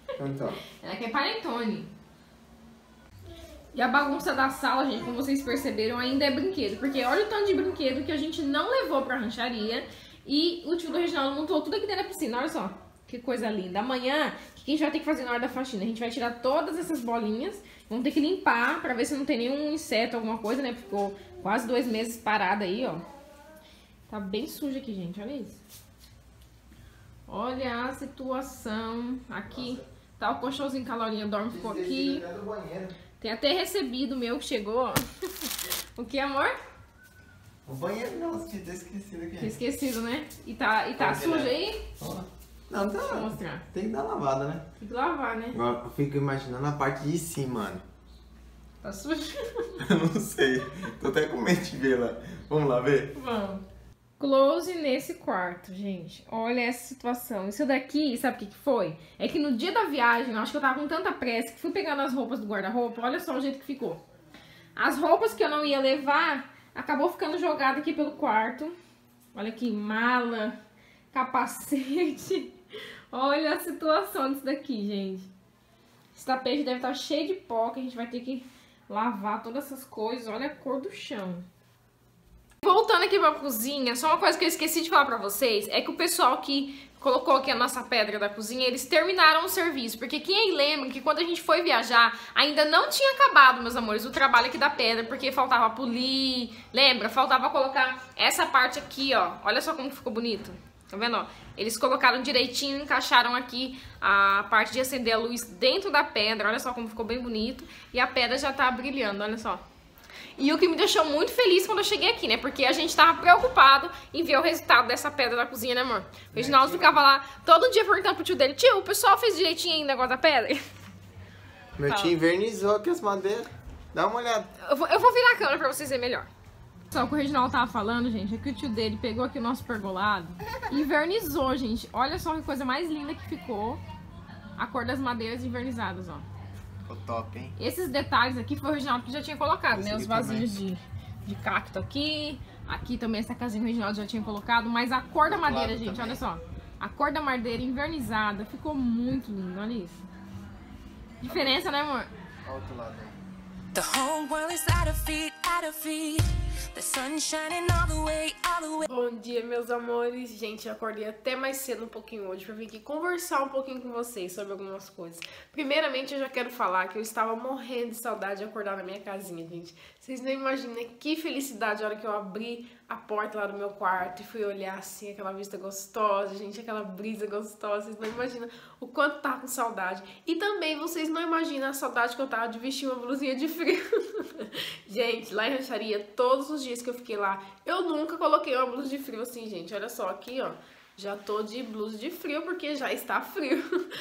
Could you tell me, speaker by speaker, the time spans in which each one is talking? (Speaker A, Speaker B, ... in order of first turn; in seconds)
Speaker A: 0.2-0.6, 29.5-29.8, 31.5-33.0, 37.6-39.5, 41.0-44.6, 45.5-47.8, 49.8-53.1, 116.3-117.0, 121.8-124.5, 136.8-137.5, 139.7-140.5, 145.2-146.2, 151.3-151.6, 152.4-153.1
Speaker B: 0.7-1.9, 3.7-23.1, 24.1-25.6, 27.3-32.2, 33.2-36.5, 39.4-41.8, 43.0-43.6, 44.8-45.6, 48.8-49.7, 53.1-53.6, 54.2-64.0, 64.8-68.8, 69.3-70.6, 71.1-72.5, 73.1-75.3, 76.1-81.5, 82.6-109.6, 110.4-120.6, 121.9-122.2, 124.6-126.3, 126.9-133.8, 134.6-136.3, 137.6-150.0, 151.2-152.1, 158.9-193.6
Speaker C: 153.7-158.9